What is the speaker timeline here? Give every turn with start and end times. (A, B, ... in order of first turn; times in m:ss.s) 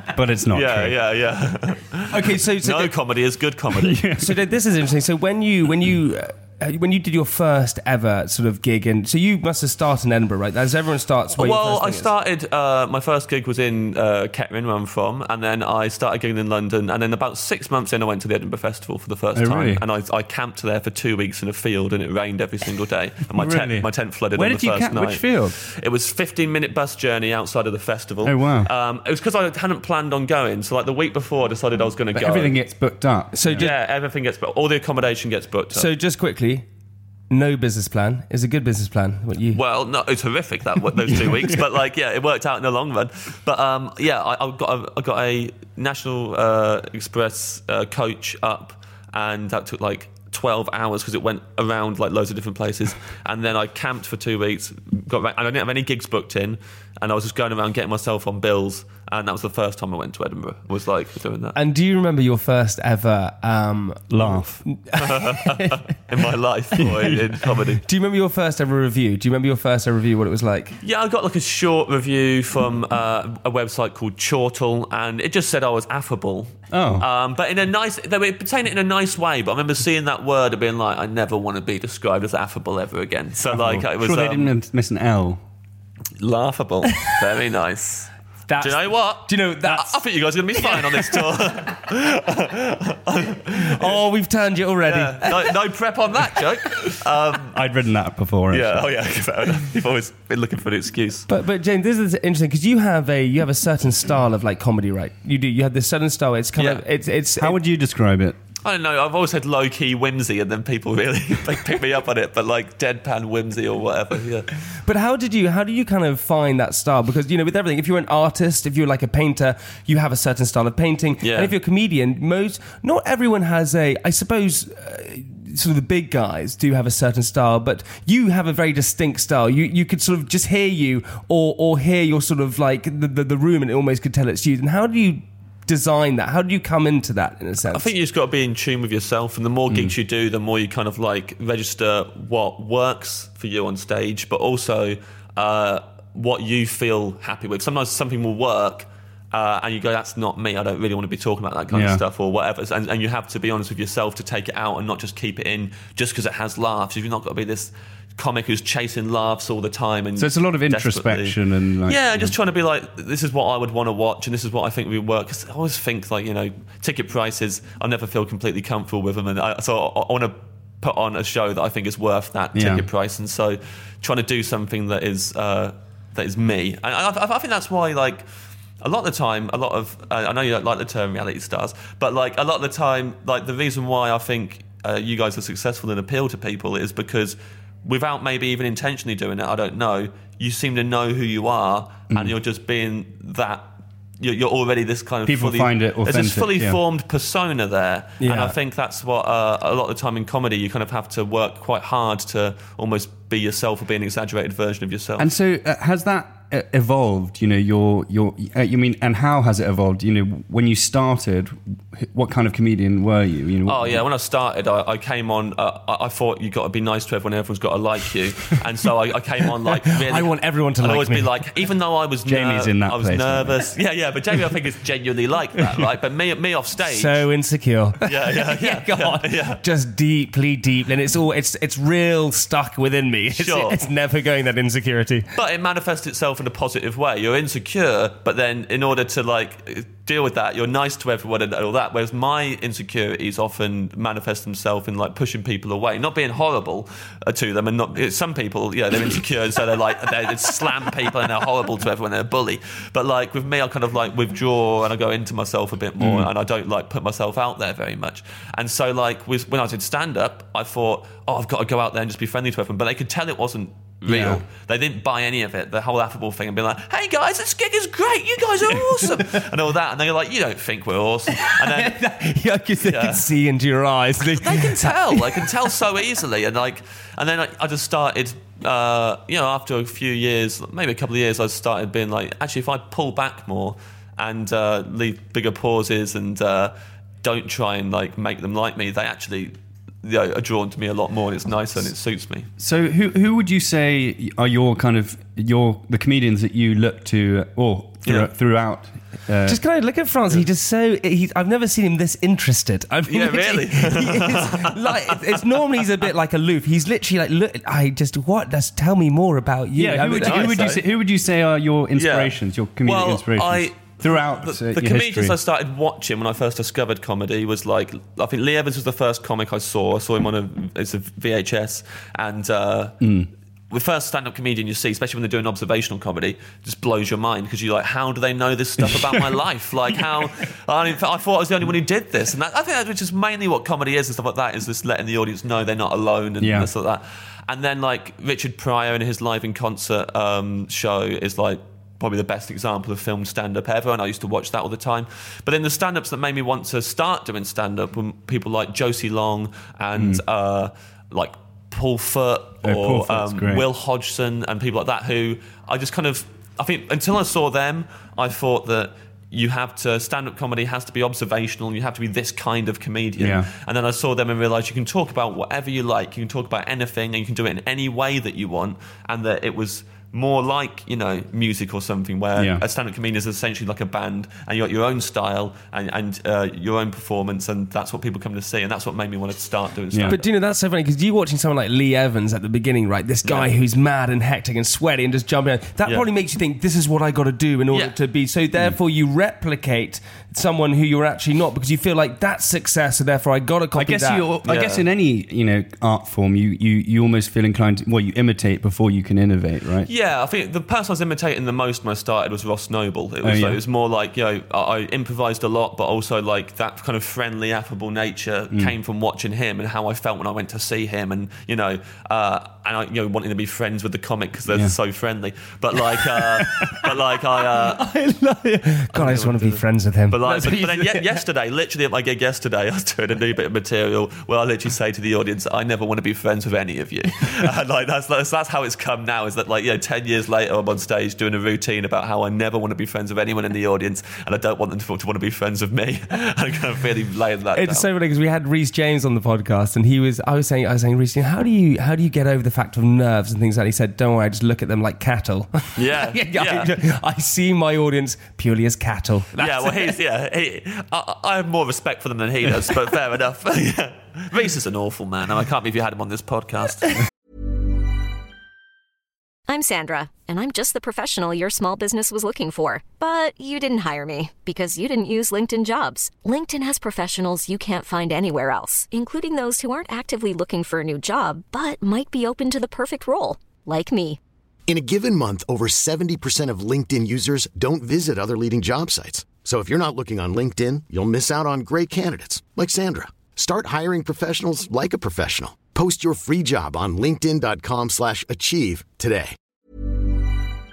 0:00.1-0:01.0 A
0:00.5-0:04.1 B
0:02.1-0:02.9 C
0:03.8-0:04.4 A
0:04.2-0:12.1 C
0:11.4-0:32.6 B
0:19.3-0:19.8 A
0:23.4-0:25.6 A
0:28.2-0:28.7 A
0:32.1-0:33.7 A
0:33.3-0:33.7 C
0:33.5-0:35.9 B
0:35.7-0:36.7 C
0:37.3-0:39.6 C
0:39.5-1:01.6 B
1:01.6-1:05.8 C
1:04.1-1:04.6 A
1:05.0-1:07.8 B
1:06.8-1:07.6 A
1:07.8-1:10.8 C
1:10.8-1:24.5 B
1:16.7-1:17.1 A
1:23.4-1:25.4 A
1:26.2-1:34.0 B
1:28.5-1:30.0 C
1:30.6-1:31.5 C
1:33.5-1:35.5 C
1:34.8-1:37.6 B
1:37.5-1:38.9 A
1:38.5-1:41.3 B
1:41.3-1:47.6 C
1:46.6-1:46.8 B
1:47.4-1:48.4 A
1:48.6-1:54.5 B
1:54.8-2:17.9 C
2:01.2-2:01.5 B
2:17.7-2:58.3 B
2:19.7-2:20.0 A
2:31.7-2:32.0 A
2:40.2-2:42.4 A
2:52.6-2:52.9 A
2:58.8-3:13.7 B
3:14.2-3:25.3 B
3:15.3-3:16.8 A
3:18.2-3:18.6 C
3:25.2-3:34.0 A
3:33.6-3:47.3 B
3:39.8-3:41.4 C
3:42.2-3:43.6 A
3:46.9-3:55.3 C
3:48.0-3:49.6 B
3:53.3-3:53.8 B
3:55.3-4:32.0 B
4:16.0-4:16.3 A
4:24.1-4:24.4 A
4:28.9-4:29.4 C
4:31.4-4:35.5 C
4:32.8-4:33.3 B
4:34.3-4:52.5 B
4:52.6-4:59.6 A
4:58.0-4:58.3 B
4:59.5-5:10.8 C
5:03.1-5:05.2 B
5:09.8-5:15.4 A
5:10.2-5:10.8 B
5:12.0-5:23.0 B
5:23.0-5:23.3 A
5:23.7-6:20.2 B
5:36.4-5:36.7 A
5:50.0-5:50.2 A
5:52.6-5:53.6 A
6:03.2-6:03.5 A
6:12.4-6:12.6 A
6:19.9-6:20.2 A
6:20.1-6:34.3 C
6:33.8-6:39.9 A
6:34.5-6:34.8 B
6:39.8-6:57.8 B
6:43.2-6:43.6 A
6:54.5-6:54.8 A
6:56.4-6:56.8 C
6:57.6-7:01.2 C
6:58.9-7:17.9 B
7:17.6-7:30.0 C
7:25.8-7:26.7 B
7:29.4-7:37.0 B
7:39.5-7:54.2 D
7:54.7-8:09.3 E